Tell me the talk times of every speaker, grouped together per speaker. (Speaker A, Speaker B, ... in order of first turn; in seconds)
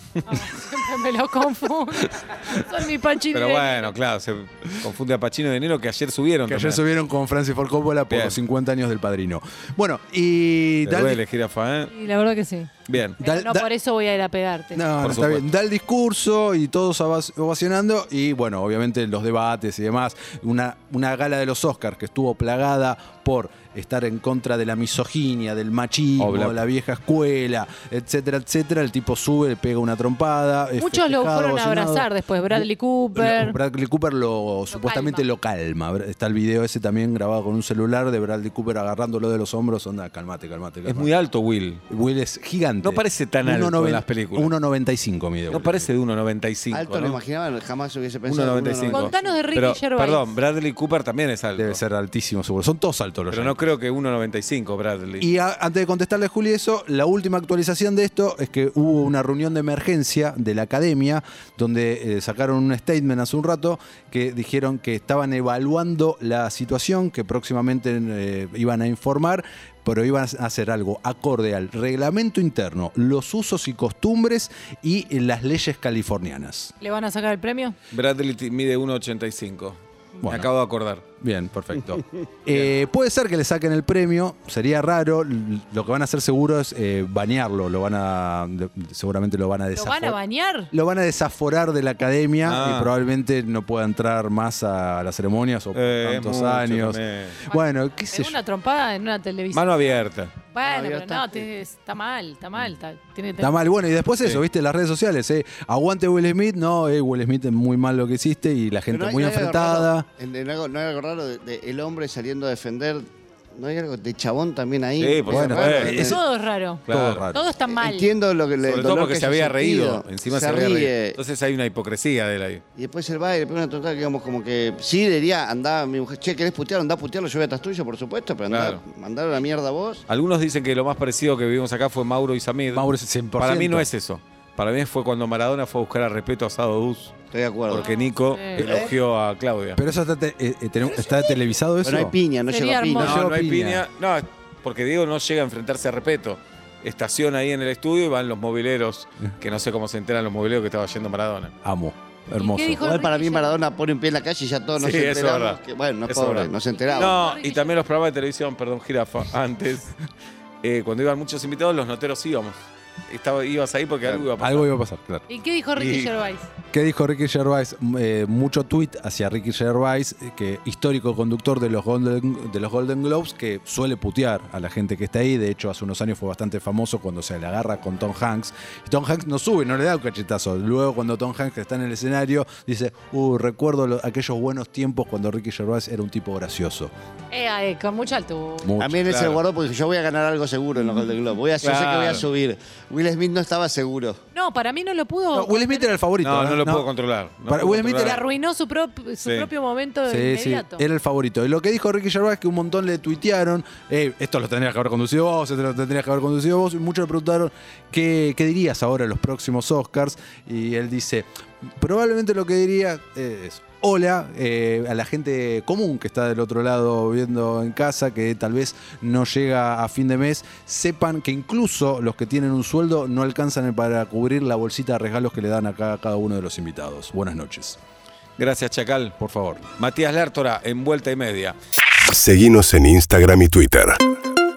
Speaker A: 0.3-3.9, 11.9-14.8, 30.8-33.6, 34.7-35.2, 48.9-50.3, 76.8-77.8, 89.7-90.7, 97.5-99.9, 100.5-103.5, 115.9-118.1, 137.8-138.6, 142.5-143.2, 152.3-153.6, 156.8-157.8, 165.3-166.5, 187.3-188.7, 194.3-195.9, 198.0-200.8
Speaker B: 3.3-6.8, 8.1-8.4, 10.8-11.9, 12.9-13.2, 15.0-15.4, 26.2-26.6, 40.8-41.8, 42.8-44.5, 45.5-47.2, 48.2-51.8, 53.3-55.3, 77.9-81.0, 92.4-92.9, 95.7-97.4, 99.5-100.3, 115.0-116.0, 116.9-117.2, 118.6-122.6, 128.5-128.8, 130.1-132.9, 133.4-137.1, 137.7-139.8, 143.0-151.5, 154.8-159.9, 160.6-164.7, 165.7-166.1, 189.0-189.4, 191.6-192.3, 196.2-198.2, 199.2-199.5, 228.4-229.1, 229.8-231.6
Speaker C: 6.5-11.2, 13.2-13.7, 14.7-41.1, 41.9-45.9, 51.6-53.7, 55.2-76.7, 80.2-80.5, 81.2-90.2, 90.7-98.4, 103.4-110.1, 115.3-116.2, 116.9-117.5, 132.7-133.9, 139.8-142.2, 142.9-143.8, 151.6-152.9, 164.4-165.2, 166.7-186.9, 188.6-189.1, 195.3-196.9, 197.4-198.2, 200.1-211.3, 211.8-227.8, 229.2-229.7
Speaker D: 46.7-49.4, 100.6-101.5, 108.9-116.2, 117.7-121.2, 122.8-130.0, 137.3-137.9, 138.6-138.9, 141.8-143.2, 152.8-157.2, 188.8-194.2
Speaker E: 232.0-234.0